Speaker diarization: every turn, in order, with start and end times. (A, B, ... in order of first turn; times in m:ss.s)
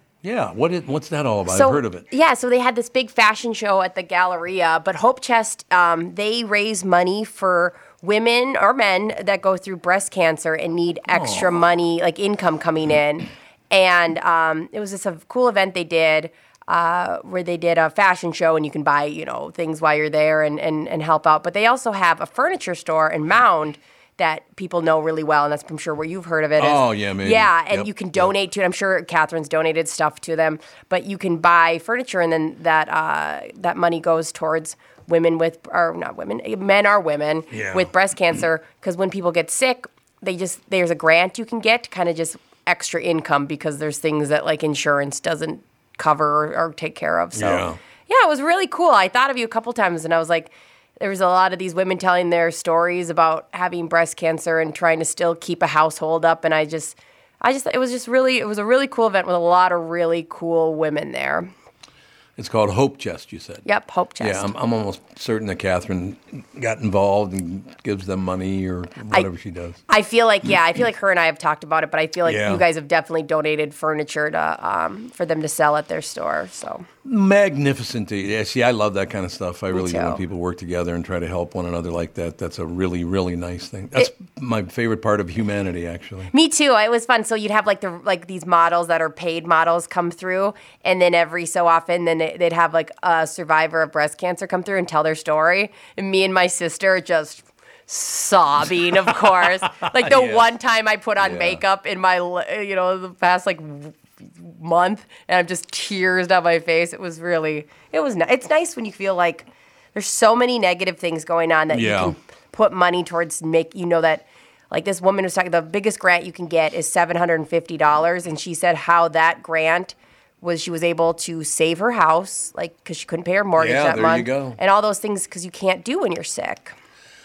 0:00.2-0:02.0 A
0:01.5-1:01.5 B
0:11.1-0:11.6 A
0:26.6-0:28.3 A
0:37.5-0:37.9 A
0:47.4-0:47.8 A
1:02.4-1:03.7 A
1:03.6-1:04.5 B
1:04.2-1:09.8 A
1:09.9-1:16.9 B
1:12.2-1:12.6 A
1:17.0-1:26.3 A
1:19.7-1:20.2 B
1:26.3-2:06.8 B
1:39.6-1:40.5 A
1:41.2-1:41.6 A
1:51.7-1:52.2 A
2:03.6-2:04.6 A